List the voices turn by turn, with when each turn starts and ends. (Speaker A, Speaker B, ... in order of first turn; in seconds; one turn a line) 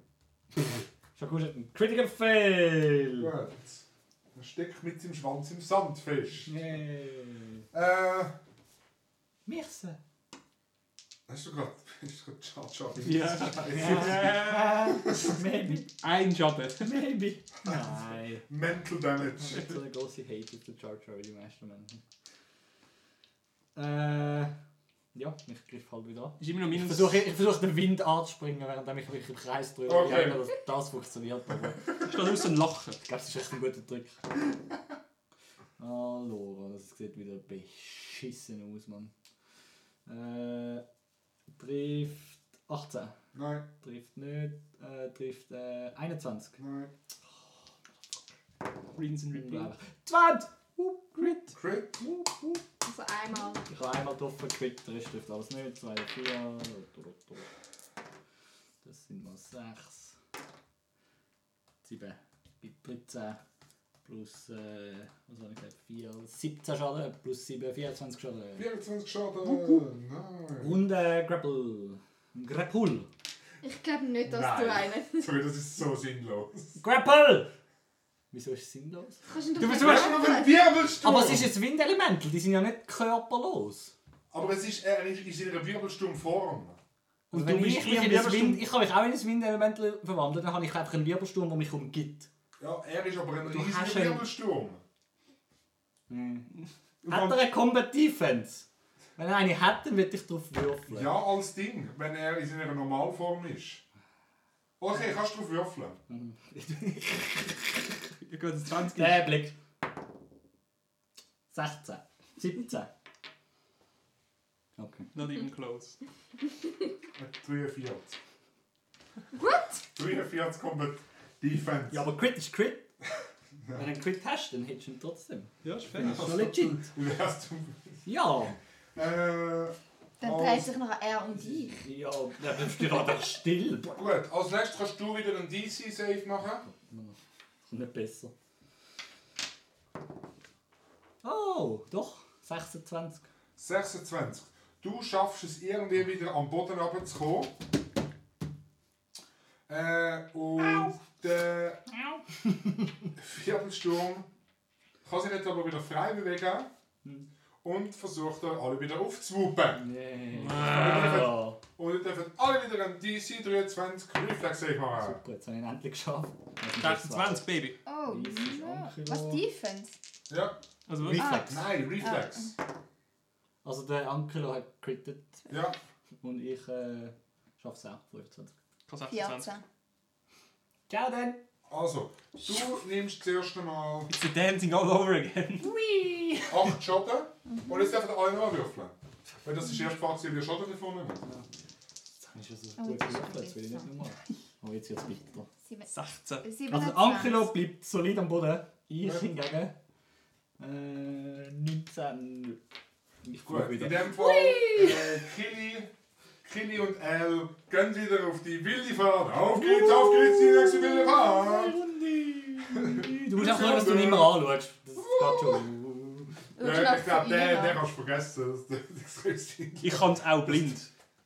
Speaker A: 1.1-3.3
Speaker B: 3.2-6.5
Speaker A: 6.5-7.7
Speaker B: 7.7-8.3
Speaker A: 9.5-10.0
Speaker B: 11.3-14.4
Speaker C: 13.0-15.1
Speaker A: 13.6-15.9
Speaker B: 14.9-15.4
Speaker C: 15.8-17.1
Speaker A: 16.8-18.5
Speaker B: 18.5-19.8
Speaker A: 19.4-22.0
Speaker A: 23.8-24.5
Speaker A: 25.1-32.0
Speaker C: 26.4-27.3
Speaker B: 29.9-30.4
Speaker C: 32.0-33.0
Speaker A: 33.0-34.3
Speaker A: 35.8-39.1
Speaker A: 40.1-40.9
Speaker A: 41.6-43.2
Speaker B: 43.3-43.7
Speaker A: 43.8-46.6
Speaker B: 46.6-46.9
Speaker C: 49.0-49.7
Speaker A: 49.3-52.6
Speaker B: 51.5-52.0
Speaker D: 52.8-53.7
Speaker A: 53.7-57.5
Speaker A: 58.8-60.2
Speaker A: 61.8-63.4
Speaker A: 64.0-68.7
Speaker B: 68.6-70.8
Speaker A: 69.4-69.8
Speaker A: 70.6-73.1
Speaker D: 73.6-75.3
Speaker B: 74.2-76.8
Speaker A: 76.8-77.5
Speaker A: 78.3-80.2
Speaker D: 79.3-80.6
Speaker B: 79.7-81.5
Speaker A: 81.0-83.9
Speaker B: 84.3-86.8
Speaker C: 87.3-88.6
Speaker A: 87.3-92.3
Speaker B: 92.6-94.8
Speaker A: 93.4-94.2
Speaker A: 96.1-96.5
Speaker B: 97.0-97.4
Speaker A: 97.1-101.1
Speaker B: 100.9-103.8
Speaker B: 104.8-106.0
Speaker A: 106.1-107.9
Speaker C: 108.2-109.4
Speaker A: 108.9-109.5
Speaker A: 111.5-112.9
Speaker A: 114.8-115.1
Speaker C: 115.1-116.0
Speaker B: 117.2-118.2
Speaker D: 119.3-119.8
Speaker B: 120.0-122.1
Speaker A: 121.9-122.9
Speaker A: 123.7-126.9
Speaker C: 125.6-126.3
Speaker B: 126.0-128.0
Speaker A: 128.1-128.6
Speaker B: 128.9-130.7
Speaker D: 130.2-131.8
Speaker A: 131.4-133.9
Speaker B: 133.8-136.7
Speaker A: 136.6-138.3
Speaker A: 141.2-143.3
Speaker B: 143.6-147.5
Speaker B: 149.7-151.8
Speaker A: 152.4-152.9
Speaker B: 153.2-154.3
Speaker B: 155.1-156.7
Speaker B: 157.6-159.8
Speaker A: 159.8-161.6
Speaker C: 160.3-161.3
Speaker B: 160.6-165.2
Speaker A: 164.9-167.5
Speaker C: 166.8-167.8
Speaker D: 167.8-170.0
Speaker A: 168.0-169.4
Speaker B: 170.3-170.5
Speaker C: 170.9-171.3
Speaker A: 171.0-171.7
Speaker D: 171.2-172.6
Speaker B: 171.2-172.6
Speaker A: 173.6-175.4
Speaker B: 175.5-175.8
Speaker A: 176.2-178.5
Speaker C: 178.9-179.5
Speaker D: 179.1-179.6
Speaker A: 180.9-181.4
Speaker B: 181.7-184.1
Speaker C: 184.1-185.7
Speaker A: 185.6-186.8
Speaker B: 186.5-191.2
Speaker D: 187.5-188.0
Speaker A: 192.3-195.5
Speaker D: 192.8-193.9
Speaker D: 195.7-195.9
Speaker C: 195.9-196.5
Speaker D: 196.4-197.5
Speaker A: 196.7-199.8
Speaker B: 199.0-199.3
Speaker A: 200.6-202.6
Speaker A: 203.2-205.2
Speaker B: 203.4-205.9
Speaker B: 206.4-211.8
Speaker A: 209.5-216.3
Speaker B: 212.7-215.7
Speaker D: 216.6-217.8
Speaker B: 216.6-220.6
Speaker C: 219.8-220.9